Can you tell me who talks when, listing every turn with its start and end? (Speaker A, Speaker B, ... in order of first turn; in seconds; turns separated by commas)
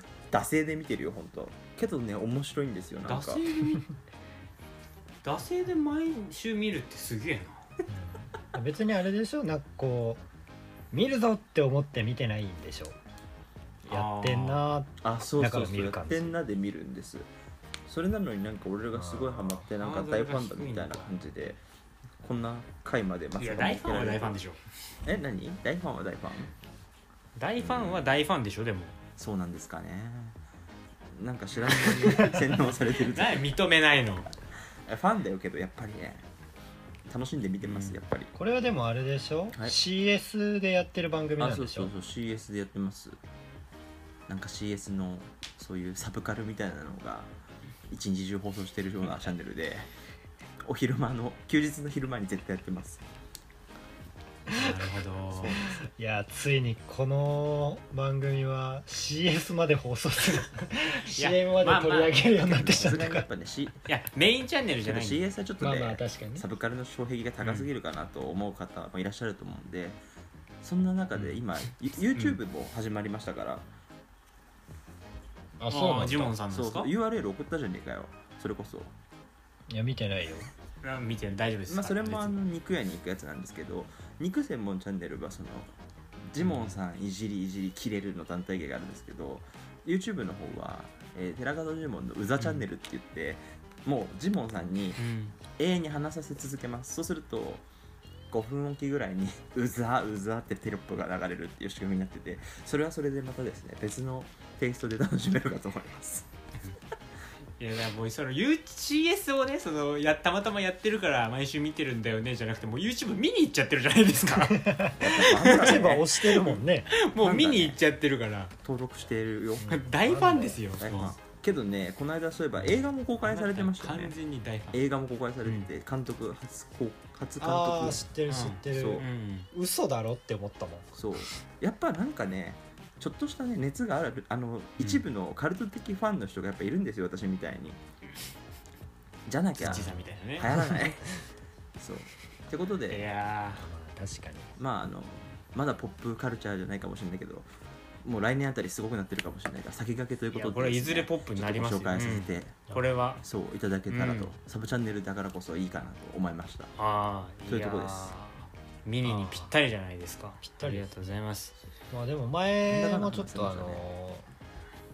Speaker A: 0.3-3.4, Speaker B: 3.0-3.9, Speaker B: 5.2-7.6, Speaker C: 7.9-10.2, Speaker C: 10.9-13.0, Speaker B: 13.8-14.7, Speaker C: 13.9-16.4, Speaker A: 15.0-17.3, Speaker A: 17.9-21.6, Speaker C: 18.9-19.6, Speaker B: 19.7-21.1, Speaker A: 22.2-24.4, Speaker B: 23.4-24.6, Speaker A: 25.1-26.5, Speaker B: 27.4-29.0, Speaker A: 27.6-28.2, Speaker A: 29.2-30.4, Speaker A: 31.1-33.6, Speaker B: 31.7-32.2, Speaker B: 33.1-34.3, Speaker A: 34.9-36.3, Speaker A: 37.1-38.3, Speaker B: 37.6-38.0, Speaker C: 38.3-41.9, Speaker A: 41.4-43.2, Speaker A: 44.3-47.3, Speaker A: 47.9-49.9, Speaker A: 50.6-53.0, Speaker C: 54.5-54.8, Speaker B: 54.5-55.5, Speaker A: 55.3-55.9, Speaker C: 55.6-63.3, Speaker B: 61.0-63.0, Speaker A: 62.4-63.9, Speaker B: 63.9-65.2, Speaker A: 64.8-70.0, Speaker C: 65.6-66.5, Speaker B: 67.4-67.7, Speaker A: 70.6-73.7, Speaker B: 71.2-71.4, Speaker C: 75.6-76.4, Speaker B: 75.7-76.9, Speaker A: 76.5-78.9, Speaker C: 79.7-80.5, Speaker B: 80.8-82.4, Speaker A: 81.7-85.7, Speaker A: 86.3-95.0, Speaker B: 86.4-86.8, Speaker B: 92.4-92.7, Speaker B: 95.0-95.3, Speaker A: 95.6-97.7, Speaker A: 98.3-106.3, Speaker B: 107.6-115.9, Speaker C: 114.5-116.9, Speaker A: 115.0-116.6, Speaker B: 116.9-118.5, Speaker A: 117.2-117.8, Speaker A: 118.6-119.7, Speaker C: 119.6-120.6, Speaker B: 119.7-121.2, Speaker A: 120.8-124.2, Speaker B: 123.2-124.8, Speaker A: 124.7-128.1, Speaker B: 125.4-125.7, Speaker C: 127.4-130.9, Speaker B: 128.3-129.5, Speaker A: 128.7-129.1, Speaker A: 130.9-137.8, Speaker B: 134.8-135.1, Speaker A: 139.3-141.1, Speaker B: 139.6-140.5, Speaker C: 140.5-140.9, Speaker A: 141.8-143.1, Speaker B: 142.9-143.7, Speaker C: 143.5-144.5, Speaker A: 144.6-147.5, Speaker A: 148.0-152.7, Speaker B: 150.3-153.2, Speaker C: 152.7-153.0, Speaker A: 153.2-156.7, Speaker B: 153.9-154.3, Speaker B: 156.8-161.5, Speaker A: 157.5-158.1, Speaker C: 159.0-159.6, Speaker C: 160.4-160.9, Speaker C: 161.9-164.3, Speaker A: 162.7-163.8